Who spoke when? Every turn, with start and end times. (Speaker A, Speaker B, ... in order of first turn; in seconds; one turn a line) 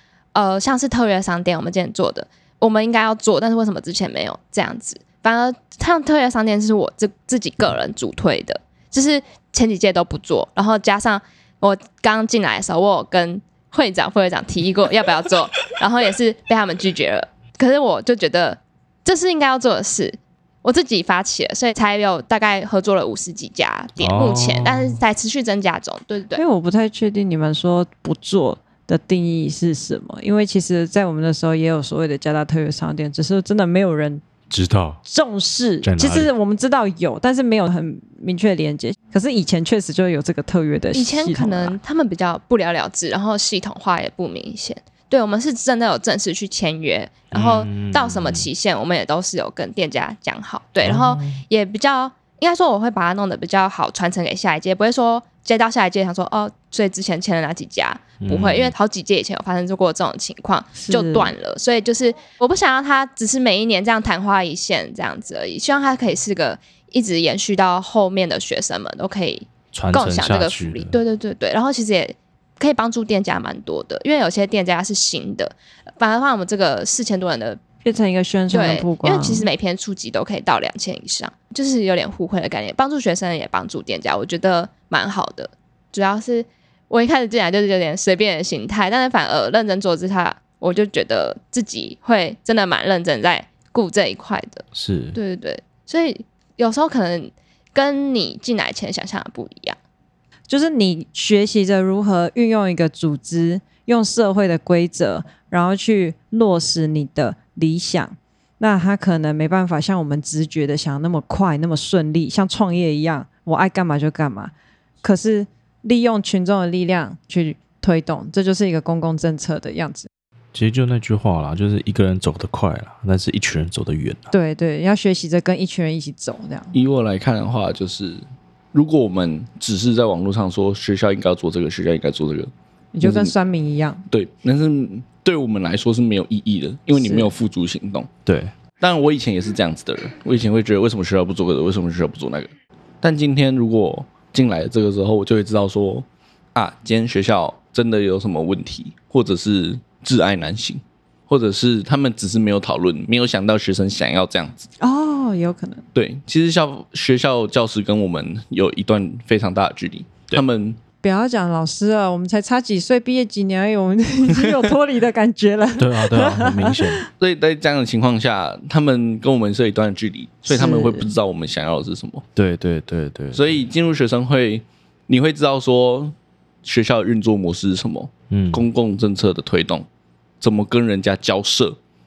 Speaker A: 0.3-26.4
Speaker B: 24.0-25.0
Speaker C: 26.3-34.2
Speaker B: 34.5-35.0
Speaker C: 35.0-41.8
Speaker B: 35.8-36.3
Speaker A: 40.9-77.6
Speaker B: 47.3-48.5
Speaker B: 50.8-51.4
Speaker B: 58.2-58.7
Speaker C: 60.8-61.3
Speaker B: 69.7-71.0
Speaker C: 77.8-79.5
Speaker A: 78.5-99.8
Speaker B: 94.7-95.2
Speaker C: 100.5-120.1
Speaker B: 120.5-124.3
Speaker C: 124.3-126.7
Speaker D: 126.7-133.3
Speaker C: 132.9-134.0
Speaker D: 134.1-138.1
Speaker C: 136.9-137.3
Speaker B: 138.2-138.5
Speaker D: 138.8-142.5
Speaker D: 143.0-154.7
Speaker C: 154.8-155.8
Speaker D: 155.9-160.8
Speaker C: 161.0-167.1
Speaker B: 165.8-167.1
Speaker D: 167.2-172.2
Speaker C: 170.5-171.1
Speaker B: 172.3-173.6
Speaker D: 173.3-179.8
Speaker B: 178.3-178.7
Speaker D: 180.4-181.8